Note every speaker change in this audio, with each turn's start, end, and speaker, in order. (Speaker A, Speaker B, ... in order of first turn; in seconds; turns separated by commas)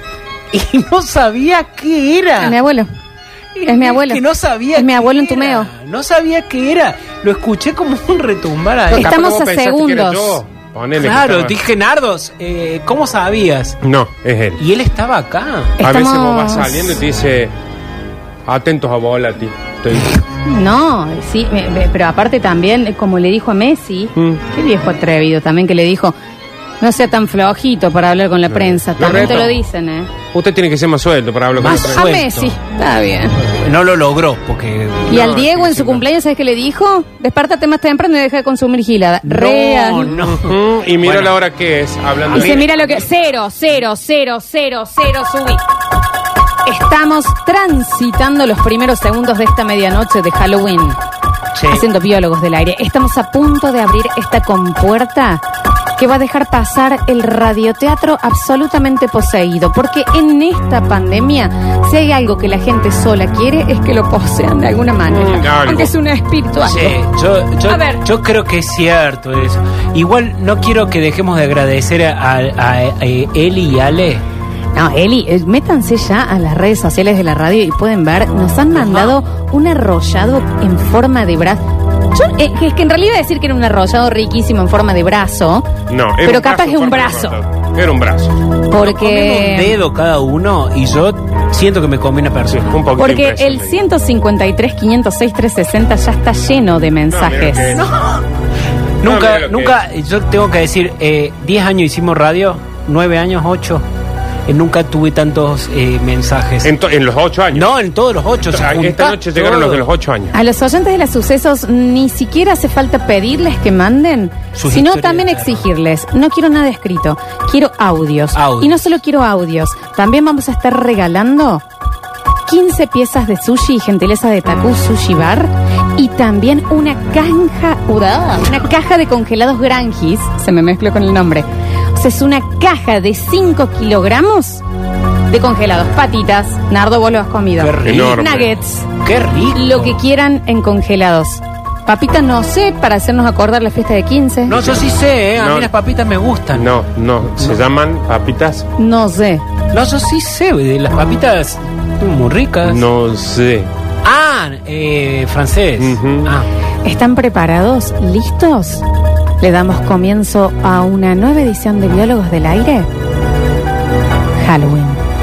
Speaker A: 0.5-2.6, Speaker B: 2.4-2.9, Speaker A: 3.5-9.1, Speaker B: 3.7-5.7, Speaker C: 8.9-11.6, Speaker B: 8.9-10.4, Speaker A: 11.0-13.8, Speaker C: 13.8-14.6, Speaker A: 14.6-15.8, Speaker B: 15.8-17.0, Speaker C: 15.8-17.5, Speaker C: 18.5-20.2, Speaker B: 20.4-26.2, Speaker C: 24.2-24.4, Speaker B: 26.8-30.1, Speaker C: 28.5-29.6, Speaker C: 30.3-32.1, Speaker A: 31.6-32.6, Speaker B: 31.7-33.5, Speaker A: 33.5-35.3, Speaker C: 35.1-36.1, Speaker B: 35.1-40.2, Speaker A: 39.2-41.4, Speaker C: 40.1-43.1, Speaker A: 42.3-42.6, Speaker B: 42.3-45.6, Speaker B: 46.7-51.0, Speaker A: 51.5-51.9, Speaker B: 51.7-55.4, Speaker B: 56.0-67.0, Speaker C: 65.1-65.9, Speaker A: 66.6-74.2, Speaker B: 67.7-68.0, Speaker B: 74.7-87.4, Speaker A: 78.7-79.2, Speaker C: 85.9-88.5, Speaker B: 88.7-89.8, Speaker A: 88.7-92.8, Speaker C: 92.5-93.8, Speaker B: 93.0-97.8, Speaker C: 97.1-97.9, Speaker A: 97.7-98.3, Speaker A: 99.0-103.8, Speaker C: 99.0-99.8, Speaker A: 104.5-106.8, Speaker C: 106.6-107.7, Speaker A: 107.5-109.9, Speaker C: 108.5-110.3, Speaker B: 110.3-121.6, Speaker A: 114.5-115.7, Speaker A: 118.3-118.9, Speaker B: 122.5-134.6, Speaker B: 135.3-138.9, Speaker A: 137.6-138.3, Speaker C: 137.8-138.6, Speaker A: 139.0-140.0, Speaker B: 139.5-144.8, Speaker A: 144.5-146.7, Speaker C: 145.3-145.7, Speaker C: 146.5-148.7, Speaker A: 147.2-147.6, Speaker B: 148.8-149.4, Speaker A: 149.7-152.8, Speaker C: 152.6-153.7, Speaker A: 154.0-156.5, Speaker C: 155.8-156.3, Speaker B: 156.8-158.8, Speaker B: 159.4-162.9, Speaker B: 164.4-165.0